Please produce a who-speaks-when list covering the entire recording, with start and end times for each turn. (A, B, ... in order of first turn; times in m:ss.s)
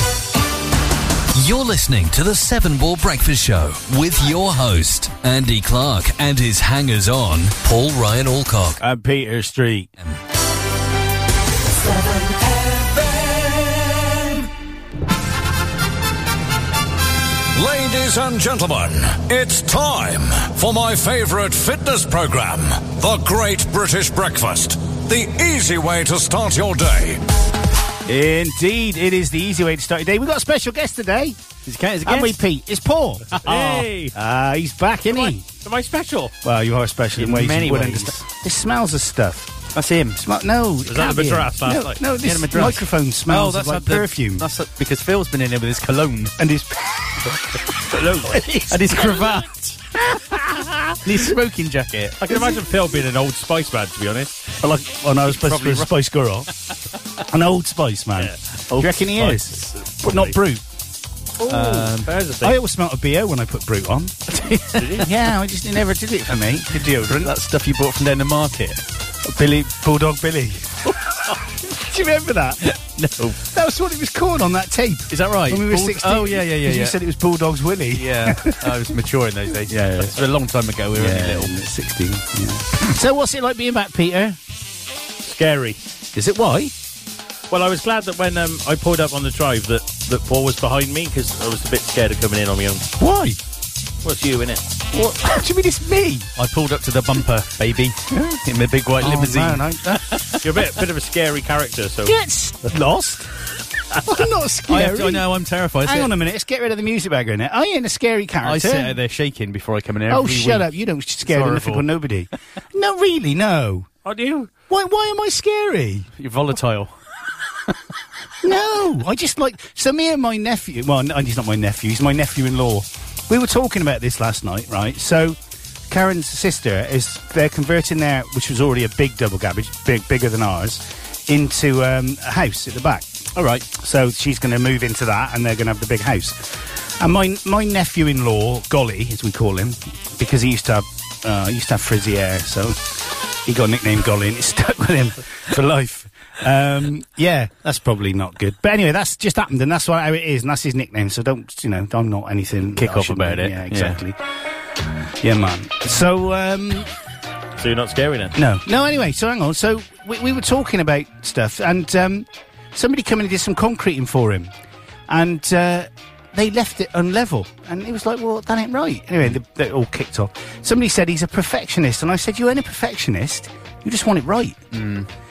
0:01.3-0:08.8 A
0:08.8-0:09.9 B
0:17.6-0:27.2 C
0:28.1-0:31.4 B
0:31.7-0:32.4 D
0:32.0-0:35.5 B
0:33.4-0:34.2 E
0:35.1-0:36.3 E
0:36.4-0:39.6 B
0:37.2-0:38.2 D
0:39.7-0:40.2 D
0:40.2-0:44.5 B
0:40.9-0:42.0 E
0:42.2-0:46.3 D
0:46.4-0:49.2 B
0:48.3-0:48.6 E
0:48.7-0:49.8 D
0:50.0-0:51.0 B
0:51.0-0:52.2 D
0:52.2-0:54.4 E
0:52.3-0:52.6 B
0:54.6-0:56.5 B
0:55.3-0:55.9 D
0:57.3-1:00.6 B
0:58.7-0:59.4 D
1:00.0-1:00.4 E
1:01.5-1:02.1 D
1:01.5-1:01.9 B
1:01.7-1:02.6 E
1:02.4-1:07.3 B
1:04.3-1:05.0 D
1:04.8-1:05.1 E
1:06.7-1:08.8 D
1:09.2-1:18.9 B
1:13.0-1:13.4 D
1:15.1-1:17.0 D
1:17.9-1:21.6 D
1:19.7-1:20.2 B
1:21.0-1:24.4 B
1:25.2-1:25.8 E
1:26.1-1:26.7 B
1:27.5-1:32.9 E
1:33.0-1:33.4 B
1:34.0-1:34.7 E
1:34.9-1:36.3 B
1:36.4-1:39.8 D
1:38.1-1:38.4 B
1:39.0-1:40.5 B
1:40.4-1:42.2 E
1:42.0-1:43.3 B
1:44.0-1:45.3 B
1:44.7-1:46.1 D
1:45.8-1:48.9 B
1:48.4-1:50.7 D
1:50.1-1:53.9 B
1:51.2-1:51.9 D
1:54.0-1:54.5 E
1:54.7-1:56.1 B
1:56.1-1:56.9 D
1:58.4-2:05.4 B
2:05.9-2:13.1 B
2:13.4-2:13.7 D
2:13.7-2:34.2 B
2:32.8-2:34.0 D
2:35.2-2:36.9 B
2:37.6-2:38.4 E
2:38.4-2:44.5 B
2:45.1-2:54.6 B
2:54.7-2:55.1 D